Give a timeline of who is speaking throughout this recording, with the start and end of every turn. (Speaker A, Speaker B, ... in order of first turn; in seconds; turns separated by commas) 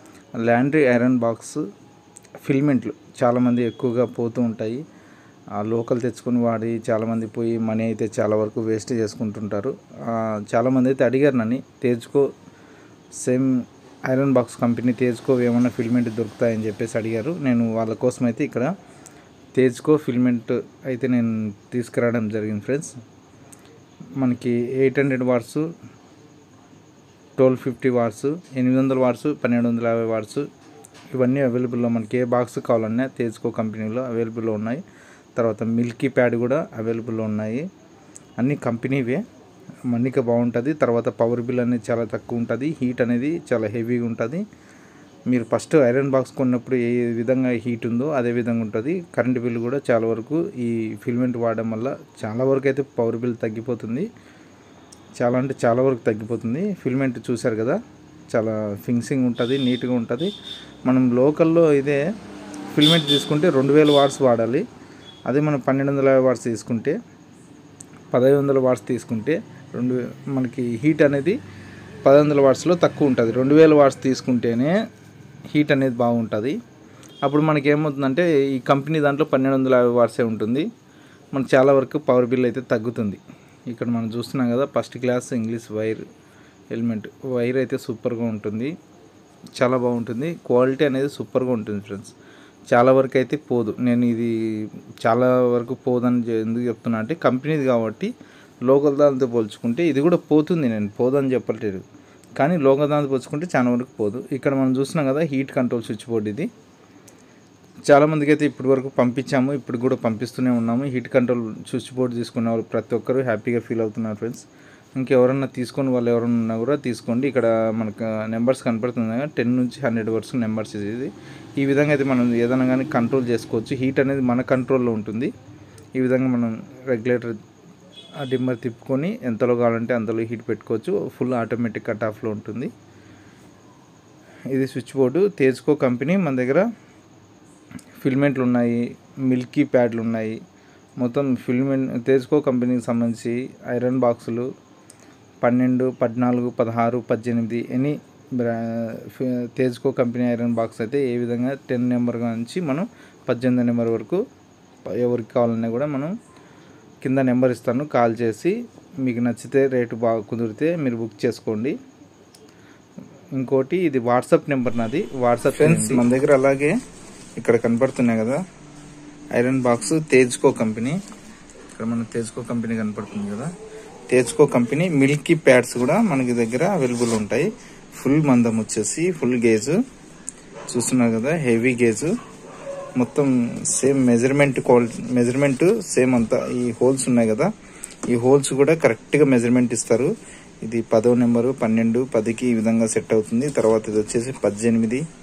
Speaker A: 0.4-1.6, Speaker A: 2.4-4.8, Speaker A: 5.6-12.3, Speaker A: 13.2-18.7, Speaker A: 19.6-23.0, Speaker A: 24.2-25.7, Speaker A: 27.4-30.5, Speaker A: 31.1-34.8, Speaker A: 35.4-37.7, Speaker A: 38.4-39.2, Speaker A: 39.9-44.4, Speaker A: 45.3-54.1, Speaker A: 55.2-57.8, Speaker A: 58.3-60.3, Speaker A: 60.9-62.0, Speaker A: 62.7-64.7, Speaker A: 65.3-67.0, Speaker A: 68.1-71.4, Speaker A: 72.0-74.7, Speaker A: 75.5-76.6, Speaker A: 77.2-80.7, Speaker A: 81.3-86.1, Speaker A: 86.7-88.7, Speaker A: 89.6-92.2, Speaker A: 92.7-98.1, Speaker A: 98.7-101.8, Speaker A: 102.4-106.5, Speaker A: 107.9-125.3, Speaker A: 126.0-127.4, Speaker A: 128.2-132.7, Speaker A: 134.5-136.7, Speaker A: 138.0-140.4, Speaker A: 141.0-144.5, Speaker A: 145.4-154.2, Speaker A: 154.9-156.2, Speaker A: 157.0-161.8, Speaker A: 163.4-166.7, Speaker A: 167.4-168.4, Speaker A: 169.3-171.0, Speaker A: 171.8-173.5, Speaker A: 174.1-179.8, Speaker A: 180.7-182.1, Speaker A: 183.0-187.5, Speaker A: 188.1-190.1, Speaker A: 190.6-195.0